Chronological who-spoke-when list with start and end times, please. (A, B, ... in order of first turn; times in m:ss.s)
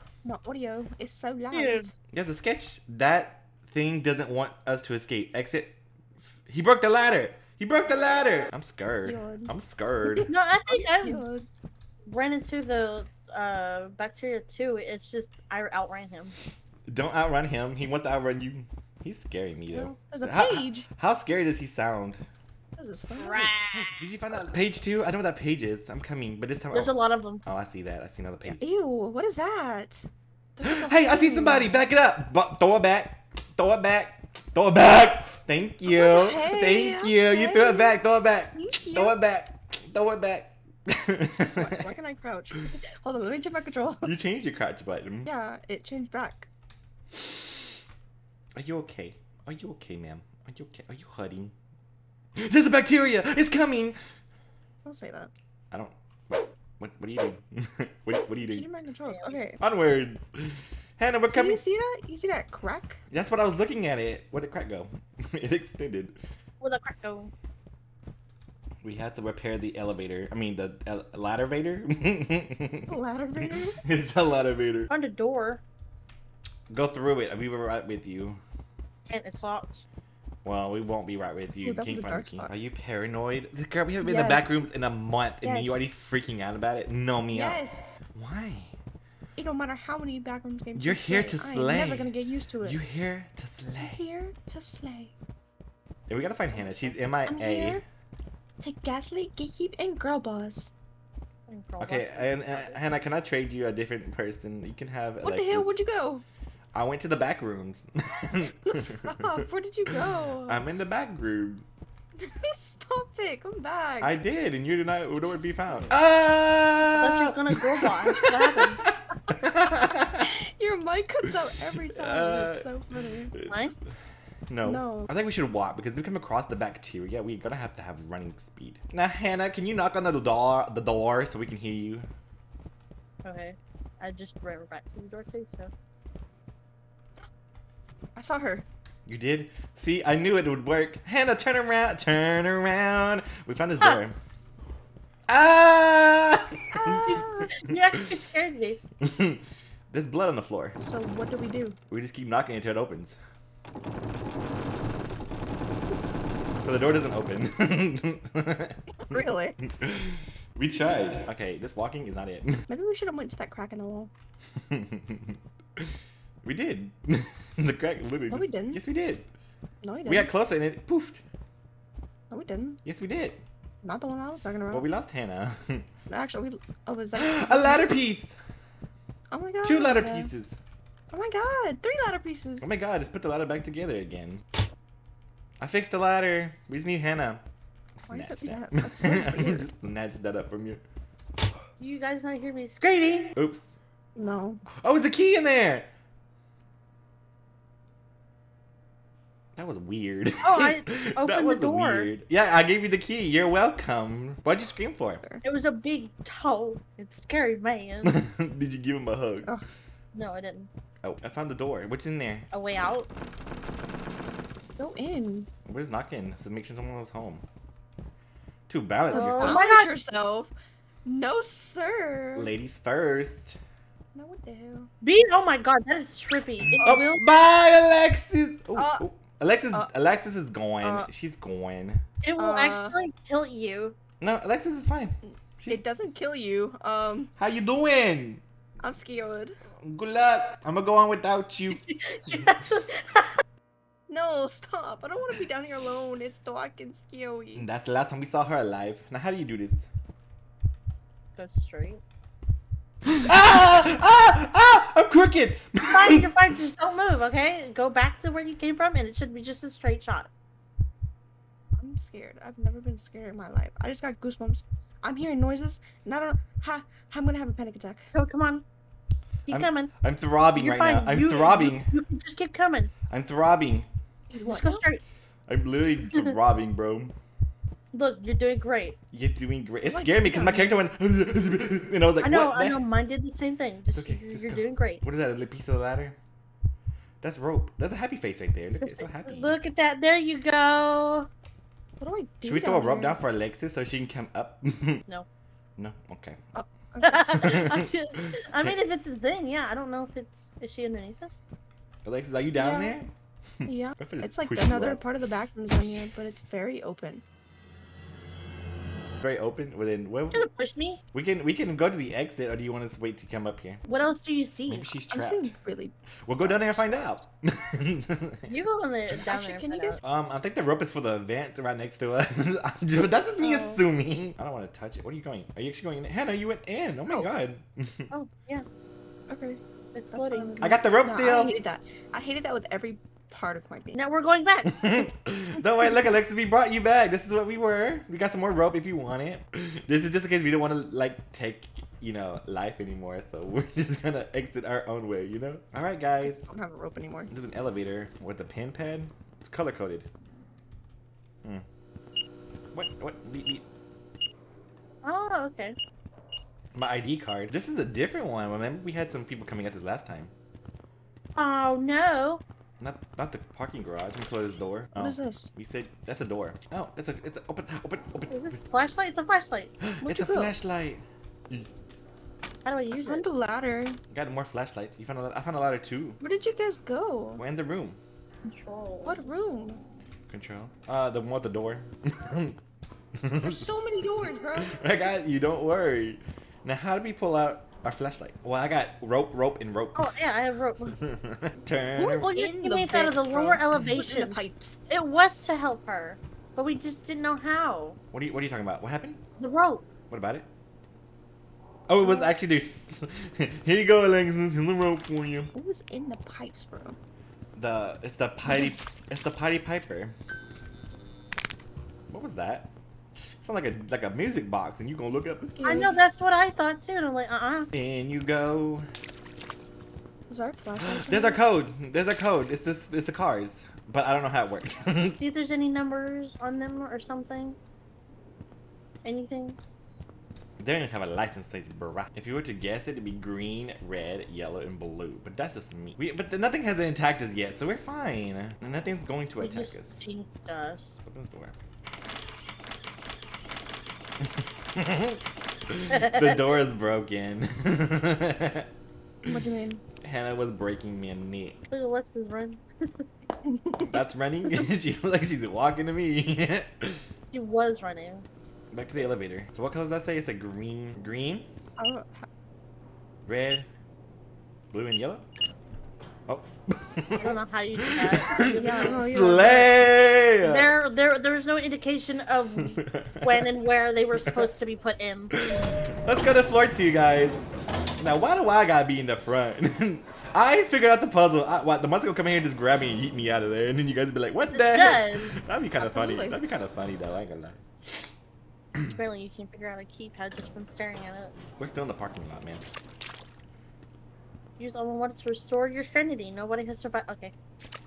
0:00.2-0:01.9 A
0:01.5-0:01.9 B
0:02.1-0:05.8 C
0:06.4-0:10.3 C
0:09.0-0:09.5 A
0:10.1-0:11.2 B
0:10.7-0:11.5 A
0:12.0-0:16.4 B
0:16.9-0:22.2 C
0:19.7-0:20.9 A
0:22.8-0:23.5 A
0:23.2-0:24.0 B
0:23.7-0:28.6 C
0:26.7-0:27.4 B
0:28.4-0:31.8 A
0:30.6-0:41.7 C
0:35.8-0:38.0 A
0:38.5-0:39.2 A
0:41.6-0:44.1 A
0:44.0-0:45.3 C
0:45.2-0:46.5 A
0:48.6-0:51.5 C
0:52.4-0:54.0 C
0:54.8-0:55.3 A
0:55.7-0:58.7 C
0:58.5-0:59.6 A
0:59.1-0:59.6 B
0:59.6-1:01.6 C
1:01.3-1:03.0 A
1:03.1-1:06.2 C
1:06.6-1:07.3 B
1:08.8-1:14.9 C
1:12.9-1:13.8 A
1:14.9-1:15.6 B
1:16.7-1:18.4 C
1:19.1-1:19.8 B
1:20.4-1:27.6 C
1:21.6-1:22.5 A
1:24.0-1:24.6 A
1:25.4-1:25.8 A
1:27.3-1:28.0 A
1:28.1-1:28.8 C
1:29.4-1:32.8 A
1:30.8-1:32.1 C
1:32.6-1:34.0 C
1:33.8-1:35.1 A
1:36.1-1:37.8 C
1:36.5-1:37.8 A
1:38.6-1:40.7 A
1:41.5-1:43.0 B
1:41.8-1:45.8 C
1:45.2-1:46.2 A
1:46.7-1:49.4 C
1:48.6-1:50.6 A
1:50.4-1:51.7 C
1:52.2-1:54.2 A
1:54.0-2:00.3 C
1:55.2-1:55.9 A
1:56.9-1:58.8 B
2:00.2-2:03.3 A
2:01.9-2:02.7 C
2:03.3-2:03.7 C
2:04.5-2:12.1 C
2:04.6-2:05.1 A
2:13.2-2:15.7 B
2:18.2-2:18.6 A
2:19.0-2:24.1 C
2:25.3-2:28.0 C
2:26.8-2:27.2 A
2:27.0-2:28.8 B
2:29.0-2:30.8 C
2:30.8-2:31.8 A
2:31.9-2:33.2 C
2:36.6-2:42.6 C
2:39.0-2:39.6 A
2:42.7-2:44.1 A
2:44.6-2:45.9 C
2:46.4-2:49.2 C
2:48.3-2:48.8 A
2:49.8-2:50.3 A
2:50.0-2:51.2 C
2:52.3-2:52.8 A
2:52.8-2:53.4 C
2:53.8-2:54.8 A
2:54.7-2:55.8 C
2:56.1-2:57.9 A
2:57.2-2:58.4 C
2:59.3-3:00.3 A
2:59.6-3:00.6 C
3:01.1-3:02.6 A
3:02.6-3:04.4 C
3:05.6-3:07.4 C
3:08.0-3:10.8 C
3:08.1-3:09.7 A
3:11.8-3:13.3 B
3:13.3-3:13.7 C
3:14.2-3:14.6 A
3:14.8-3:15.9 C
3:19.6-3:25.2 C
3:20.4-3:22.1 B
3:25.4-3:28.1 B
3:28.0-3:29.5 C
3:30.1-3:30.7 B
3:31.0-3:32.5 C
3:32.5-3:33.1 B
3:34.8-3:35.5 A
3:35.6-3:37.4 C
3:38.7-3:39.6 C
3:39.1-3:39.9 B
3:39.1-3:40.5 A
3:41.0-3:42.5 A
3:42.4-3:43.6 C
3:44.1-3:44.9 A
3:45.0-3:47.2 B
3:46.8-3:52.0 C
3:48.8-3:49.0 A
3:50.8-3:51.1 A
3:52.2-3:54.0 B
3:52.4-3:53.0 A
3:54.2-3:55.9 C
3:55.2-3:57.3 A
3:57.4-3:58.4 C
3:58.8-3:59.6 A
3:59.8-4:02.5 C
4:01.7-4:03.4 B
4:04.1-4:07.6 A
4:07.6-4:09.9 C
4:11.4-4:12.0 B
4:13.2-4:16.3 C
4:15.8-4:20.3 B
4:21.8-4:28.1 A
4:28.1-4:28.6 B
4:29.4-4:29.9 B
4:29.5-4:31.9 C
4:30.5-4:32.9 B
4:33.1-4:33.9 C
4:34.3-4:34.8 A
4:34.4-4:35.0 B
4:35.5-4:37.1 C
4:37.9-4:39.0 B
4:39.1-4:42.8 C
4:39.8-4:40.8 A
4:42.2-4:45.0 B
4:43.9-4:46.2 C
4:47.2-4:49.6 C
4:48.8-4:51.3 B
4:52.0-4:53.2 A
4:52.4-4:55.0 C
4:55.8-4:56.4 C
4:56.5-4:57.6 A
4:57.0-5:01.4 B
4:57.4-4:57.9 C
4:58.6-4:58.8 C
5:02.0-5:05.0 C
5:02.6-5:03.0 A
5:03.6-5:07.2 A
5:09.2-5:10.5 C
5:10.3-5:11.0 B
5:11.1-5:13.8 C
5:13.8-5:14.9 B
5:14.7-5:15.5 C
5:15.1-5:17.2 A
5:16.2-5:18.6 C
5:18.5-5:20.0 B
5:19.2-5:20.0 A
5:20.0-5:28.1 C
5:23.3-5:23.8 A
5:28.1-5:28.6 B
5:29.3-5:29.6 A
5:29.9-5:30.5 B
5:30.1-5:34.0 A
5:30.6-5:31.5 C
5:33.9-5:35.0 B
5:34.7-5:46.5 C
5:46.2-5:47.3 A
5:47.3-5:50.1 C
5:52.7-5:53.6 C
5:55.0-5:55.8 B
5:56.7-6:00.3 C
6:01.4-6:02.4 B
6:02.8-6:08.6 C
6:05.0-6:05.5 A
6:08.3-6:09.7 B
6:09.8-6:11.7 C
6:10.0-6:10.5 A
6:12.6-6:13.2 B
6:12.9-6:14.0 A
6:14.1-6:16.2 C
6:16.2-6:17.4 A
6:17.4-6:18.0 C
6:18.4-6:19.4 B
6:19.0-6:19.8 A
6:20.3-6:22.6 C
6:23.2-6:23.6 C
6:23.4-6:24.8 A
6:24.6-6:30.1 C
6:30.0-6:31.0 B
6:31.0-6:32.3 C
6:32.0-6:34.8 A
6:32.2-6:38.0 B
6:38.1-6:39.2 C
6:39.4-6:39.8 B
6:40.1-6:40.4 C
6:41.9-6:45.5 C
6:42.0-6:42.3 B
6:45.5-6:47.0 A
6:47.5-6:50.1 C
6:48.4-6:49.0 A
6:52.1-6:52.7 C
6:53.4-6:55.8 C
6:55.4-6:55.9 A
6:55.6-6:57.7 B
6:57.7-6:58.9 C
7:00.3-7:01.4 A
7:00.8-7:05.2 C
7:05.2-7:07.6 B
7:09.0-7:09.6 B
7:10.6-7:20.0 C
7:19.4-7:21.0 B
7:21.0-7:21.5 C
7:24.7-7:28.7 C
7:25.9-7:26.5 B
7:29.2-7:29.8 A
7:30.0-7:31.6 C
7:31.7-7:33.0 B
7:33.4-7:34.0 A
7:33.8-7:37.0 C
7:37.3-7:38.2 B
7:38.7-7:41.5 C
7:41.8-7:42.2 A
7:43.2-7:43.7 C
7:44.7-7:45.2 C
7:46.3-7:50.7 C
7:47.2-7:49.7 B
7:48.5-7:49.6 A
7:50.4-7:55.3 B
7:52.6-7:53.4 C
7:54.1-7:54.5 C
7:55.3-7:57.5 C
7:58.0-8:08.1 C
8:04.4-8:05.3 B
8:05.8-8:06.4 A
8:08.9-8:11.3 B
8:11.6-8:12.6 C
8:14.6-8:17.3 B